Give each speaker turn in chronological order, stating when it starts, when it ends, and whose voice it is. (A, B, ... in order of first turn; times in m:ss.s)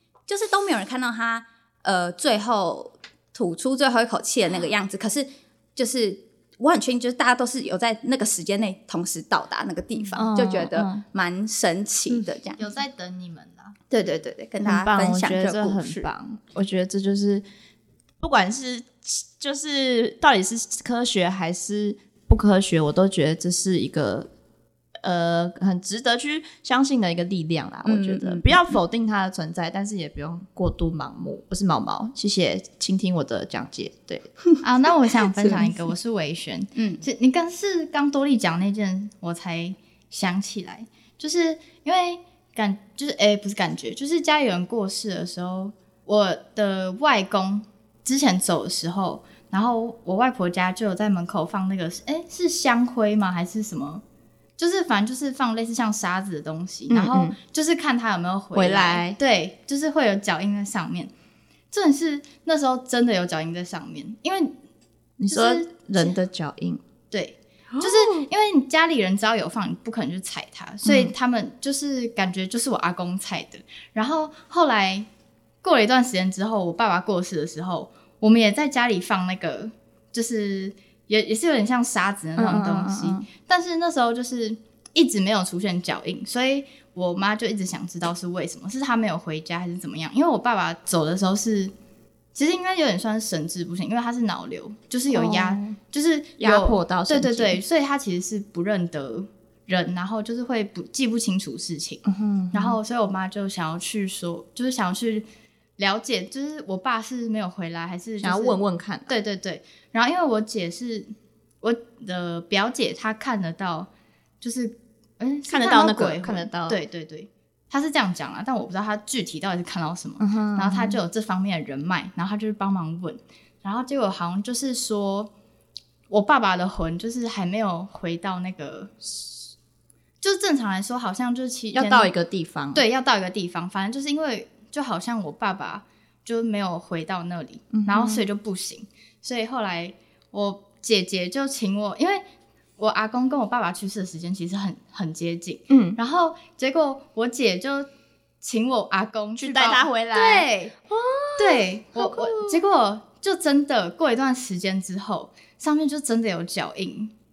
0:00.3-0:12.6 A
0:10.0-0:10.2 B
0:10.1-0:11.0 C
0:12.6-0:13.8 B
0:13.9-0:16.1 A
0:14.6-0:17.4 C
0:18.2-0:24.3 C
0:25.0-0:34.3 C
0:27.8-0:28.6 A
0:34.6-0:54.0 B
0:35.4-0:35.7 A
0:36.8-0:37.0 A
0:54.6-1:01.1 B
0:56.9-0:57.4 C
0:58.5-0:59.2 C
1:01.7-1:04.6 B
1:05.2-1:06.8 C
1:05.3-1:06.2 B
1:07.1-1:15.1 B
1:07.8-1:08.3 C
1:10.8-1:11.1 C
1:15.6-1:31.7 B
1:22.4-1:23.2 C
1:32.4-1:45.2 B
1:35.1-1:35.8 C
1:36.4-1:37.6 C
1:42.1-1:42.8 C
1:45.8-1:53.9 B
1:48.2-1:49.1 C
1:54.4-2:05.3 B
1:55.5-1:56.8 C
2:00.2-2:01.0 C
2:06.1-2:08.9 B
2:10.2-2:12.1 B
2:11.7-2:12.8 C
2:12.7-2:22.2 B
2:17.7-2:18.2 C
2:22.8-2:27.9 B
2:25.7-2:26.0 C
2:28.4-2:30.7 B
2:29.4-2:32.6 C
2:31.4-2:37.1 B